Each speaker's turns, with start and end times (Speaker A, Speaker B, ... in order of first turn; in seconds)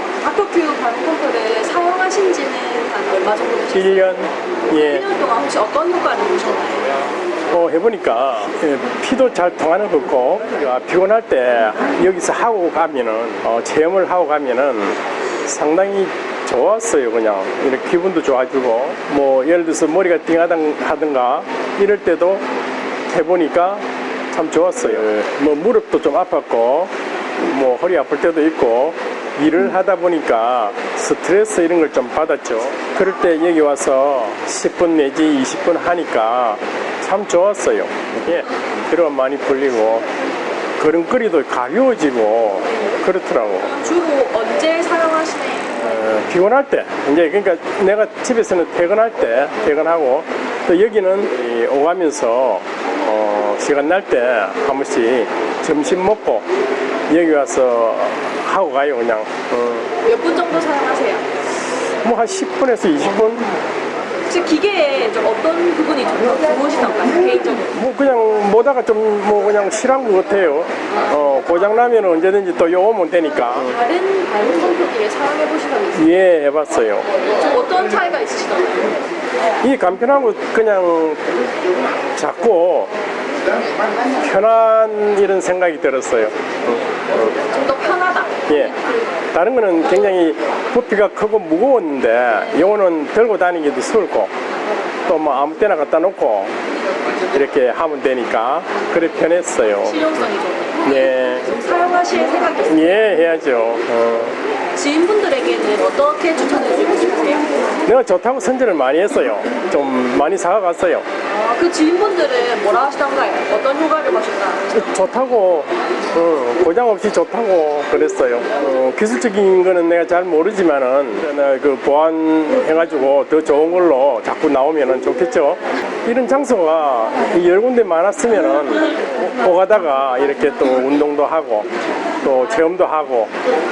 Speaker A: 0.2-6.9, 42.7-43.0, 43.7-45.8, 60.0-61.2, 64.3-67.7, 73.6-76.1, 77.3-79.0, 87.4-89.0, 99.8-103.0, 104.7-107.5, 111.3-114.9
Speaker B: 3.7-5.0, 7.5-22.4, 23.1-26.9, 27.4-40.1, 40.8-43.8, 45.8-56.5, 57.1-59.9, 62.0-63.5, 67.7-73.7, 75.9-77.1, 79.6-81.3, 82.2-82.9, 84.1-87.3, 88.5-88.8, 89.3-94.3, 95.0-96.5, 97.3-100.1, 100.8-101.5, 102.7-104.4, 107.8-111.0, 114.7-131.7, 132.2-133.3